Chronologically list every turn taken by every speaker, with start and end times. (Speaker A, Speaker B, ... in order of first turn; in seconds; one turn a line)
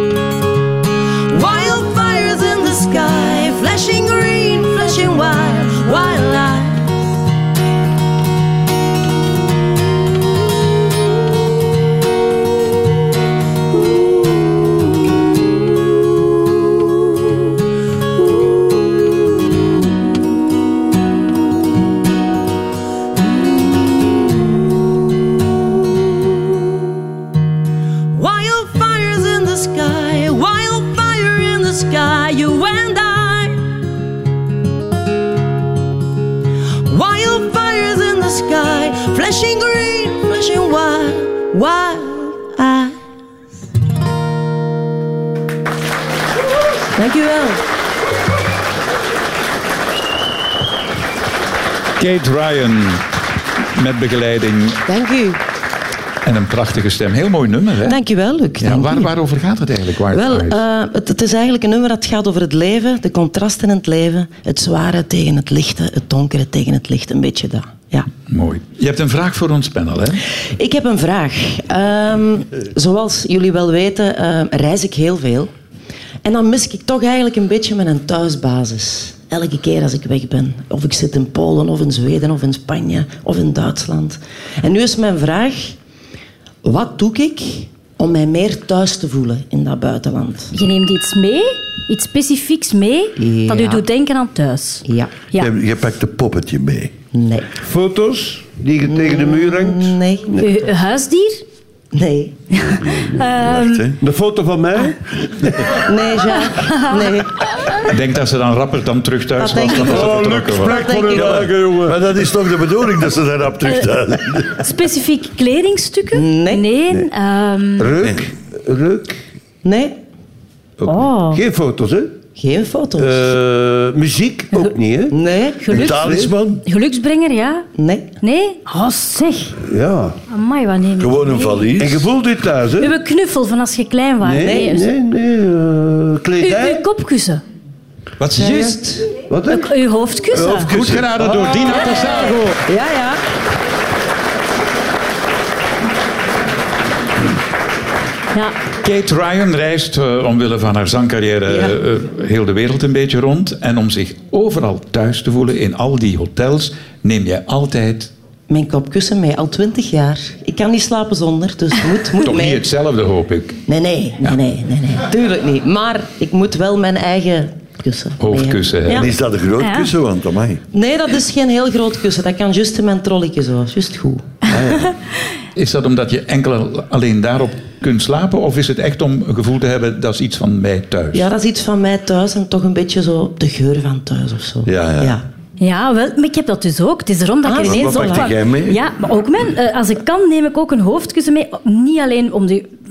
Speaker A: 1.3-7.0
Speaker A: 23.2-24.7
Speaker A: 25.6-26.4
Speaker A: 28.1-33.6
Speaker A: 36.9-43.0
Speaker A: 47.0-47.6
Speaker B: 52.0-53.1
Speaker B: 53.8-54.8
Speaker A: 54.9-55.4
Speaker B: 56.2-58.0
Speaker A: 57.9-59.1
Speaker B: 58.6-60.6
Speaker A: 60.1-68.1
Speaker B: 68.3-70.2
Speaker A: 70.6-75.5
Speaker A: 76.2-85.8
Speaker A: 86.6-90.5
Speaker C: 90.5-95.5
Speaker A: 93.2-93.8
Speaker A: 94.9-95.2
Speaker D: 95.4-96.9
Speaker A: 97.1-97.5
Speaker E: 97.6-100.5
Speaker A: 98.9-100.5
Speaker C: 100.4-101.4
Speaker A: 101.9-102.5
Speaker C: 102.5-103.8
Speaker D: 103.2-104.0
Speaker E: 104.0-105.7
Speaker A: 105.8-107.3
Speaker C: 106.6-107.1
Speaker B: 107.8-110.8
Speaker A: 109.4-110.0
Speaker E: 109.5-112.0
Speaker A: 110.6-111.4
Speaker D: 111.0-114.6
Speaker C: 114.5-117.9
Speaker A: 116.1-116.7
Speaker E: 117.8-119.2
Speaker A: 119.6-120.0
Speaker E: 120.8-122.2
Speaker C: 120.9-121.4
Speaker A: 122.4-123.2
Speaker E: 123.0-125.2
Speaker A: 125.1-126.2
Speaker C: 125.6-127.7
Speaker D: 125.7-126.6
Speaker E: 126.0-126.3
Speaker A: 127.8-128.1
Speaker C: 128.2-129.6
Speaker E: 129.6-130.2
Speaker C: 130.3-131.7
Speaker D: 131.0-132.1
Speaker E: 131.8-132.9
Speaker C: 132.8-134.9
Speaker E: 134.2-136.8
Speaker A: 134.3-134.8
Speaker C: 136.4-137.4
Speaker B: 138.2-139.0
Speaker A: 138.4-138.9
Speaker E: 139.3-139.7
Speaker C: 139.5-140.7
Speaker E: 140.3-141.7
Speaker D: 140.7-141.5
Speaker B: 140.7-142.6
Speaker A: 141.9-143.2
Speaker B: 148.8-158.1
Speaker A: 151.5-151.8
Speaker A: 158.5-162.6
Speaker B: 162.2-163.6
Speaker A: 163.7-169.1
Speaker B: 168.2-169.1
Speaker D: 168.9-170.6
Speaker C: 169.6-169.9
Speaker A: 170.7-174.4
Speaker D: 174.5-174.9
Speaker B: 175.6-181.3
Speaker A: 181.1-185.2
Speaker D: 184.7-185.2
Speaker C: 185.6-192.7
Speaker A: 187.4-188.4
Speaker D: 187.6-188.8